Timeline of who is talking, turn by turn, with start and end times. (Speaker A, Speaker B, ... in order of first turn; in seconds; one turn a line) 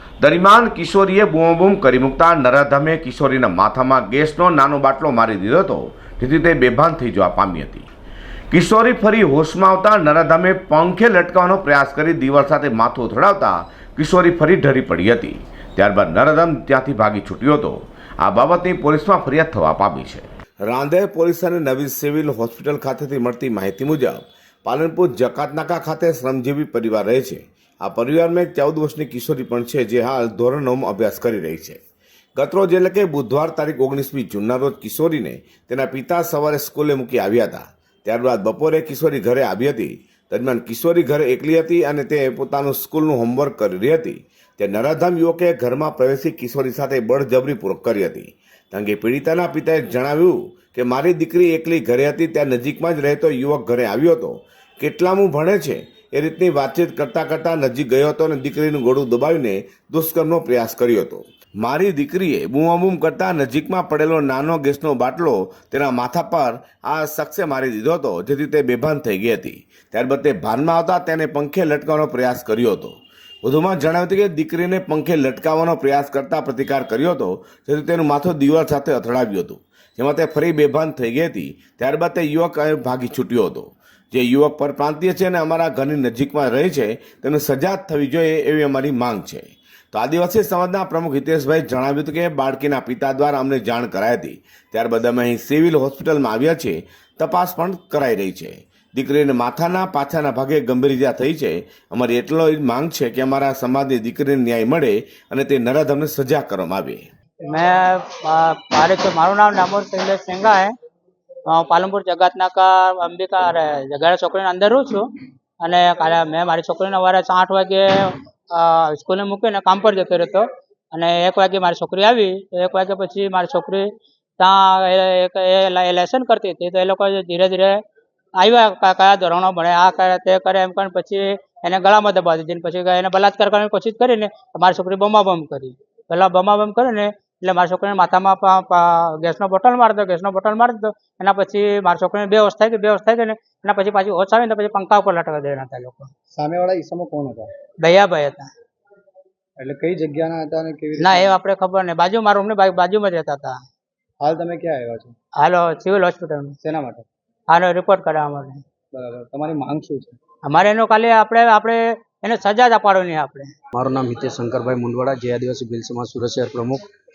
Speaker A: 0.2-7.9
Speaker A: 8.5-31.8
Speaker A: 32.4-107.0
Speaker B: 107.5-110.7
Speaker B: 111.5-115.1
Speaker B: 115.6-123.9
Speaker B: 124.4-127.8
Speaker B: 128.4-146.1
Speaker C: 146.3-147.5
Speaker B: 147.8-148.5
Speaker C: 149.6-151.4
Speaker B: 151.0-153.6
Speaker C: 154.2-155.1
Speaker B: 155.4-156.5
Speaker C: 156.6-157.1
Speaker B: 157.5-158.6
Speaker C: 158.9-160.2
Speaker B: 160.4-163.5
Speaker D: 163.8-166.8